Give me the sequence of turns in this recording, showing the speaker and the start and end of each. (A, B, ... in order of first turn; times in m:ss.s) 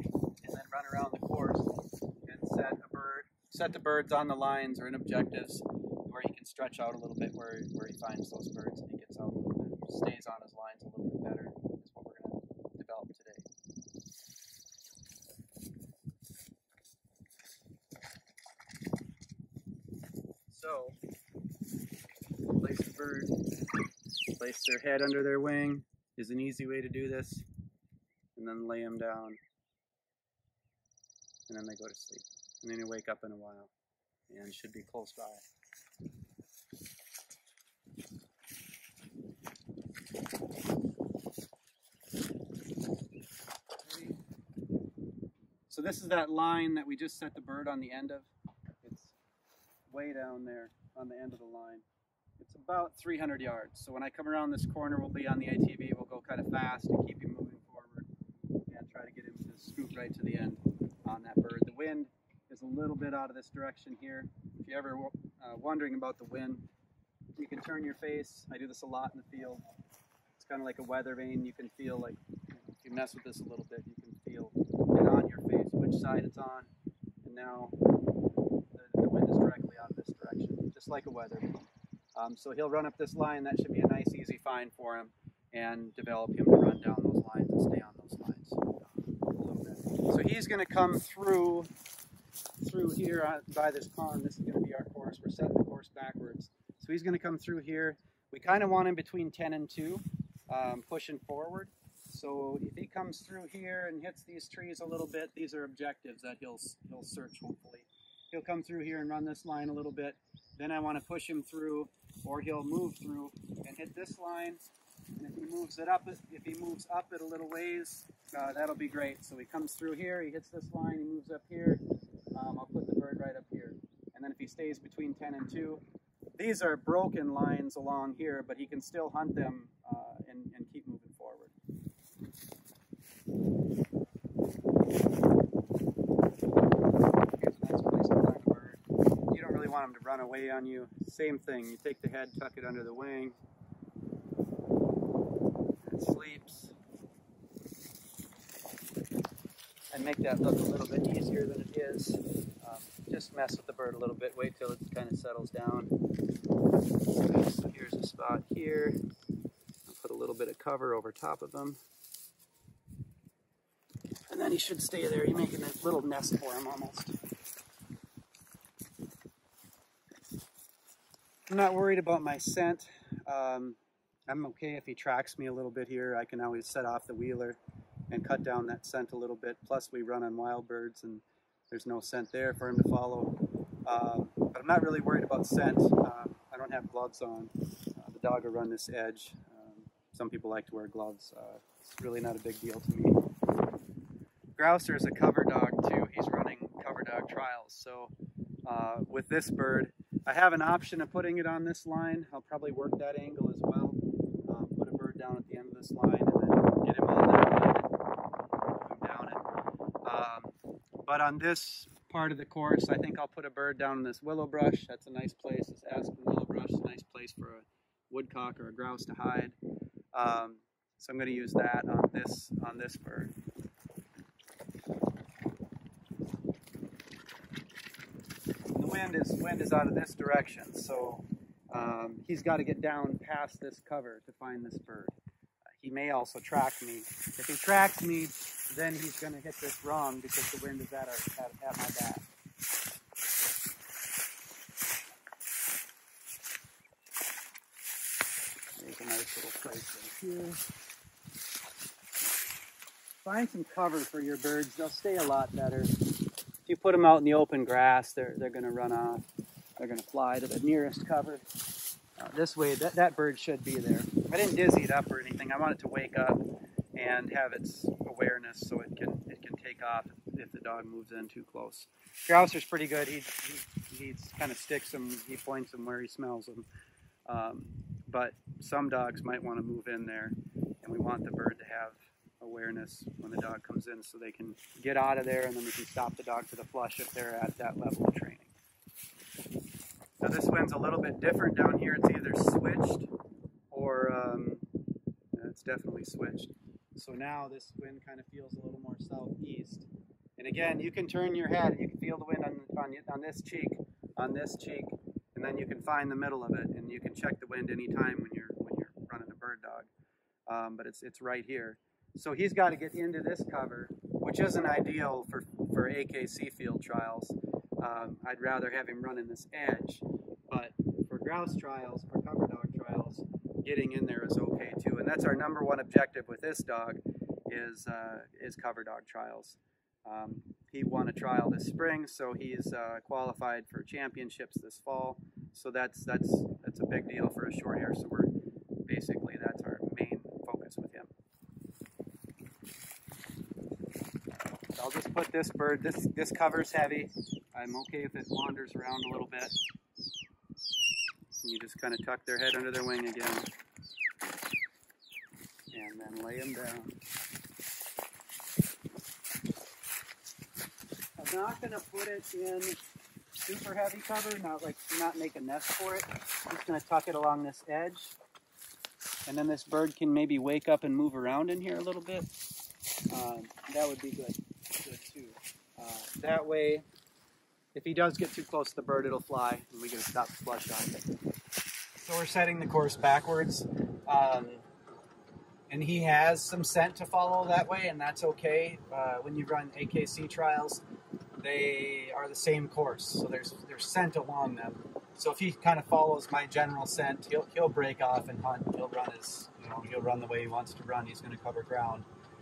0:00.4-0:01.7 A
0:02.2-0:13.5 A
0:20.5-0:20.9 A
0:22.6-0:23.4 A
0:24.4-0:27.4 A
0:28.4-0:29.4 A
0:31.5-0:33.7 A
0:34.3-0:35.4 A
0:43.8-0:44.2 A
0:45.7-0:48.3 A
0:48.8-0:49.1 A
0:49.9-0:51.8 A
0:52.4-0:58.1 A
0:58.7-1:06.6 A
1:07.4-1:09.6 A
1:10.4-1:16.7 A
1:17.2-1:17.8 A
1:18.7-1:21.6 A
1:22.2-1:31.7 A
1:32.6-1:54.6 A
1:55.2-2:01.8 A
2:02.3-2:05.8 A
2:06.4-2:11.5 A
2:17.3-2:23.4 A
2:25.8-2:26.7 A
2:29.9-2:35.9 A
2:37.2-2:39.0 A
2:39.9-2:41.8 A
2:44.3-2:47.2 A
2:51.5-2:57.6 A
2:58.1-3:13.2 A
3:14.6-3:18.1 A
3:18.6-3:27.9 A
3:28.8-3:29.4 A
3:30.0-3:39.6 A
3:40.1-3:43.3 A
3:48.7-3:55.1 A
3:55.8-4:02.2 A
4:08.8-4:10.6 A
4:13.2-4:16.0 A
4:16.6-4:19.2 A
4:19.8-4:21.4 A
4:22.2-4:36.7 A
4:37.3-4:48.5 A
4:50.2-4:53.1 A
4:53.7-4:54.6 A
4:55.3-5:09.9 A
5:10.5-5:38.3 A
5:38.8-5:41.1 A
5:44.8-5:49.5 A
5:51.4-5:53.5 A
5:55.7-5:57.0 A
6:01.2-6:02.8 A
6:03.3-6:08.2 A
6:09.2-6:12.3 A
6:13.1-6:16.8 A
6:17.7-6:21.1 A
6:22.0-6:24.6 A
6:25.7-6:30.8 A
6:31.4-6:42.1 A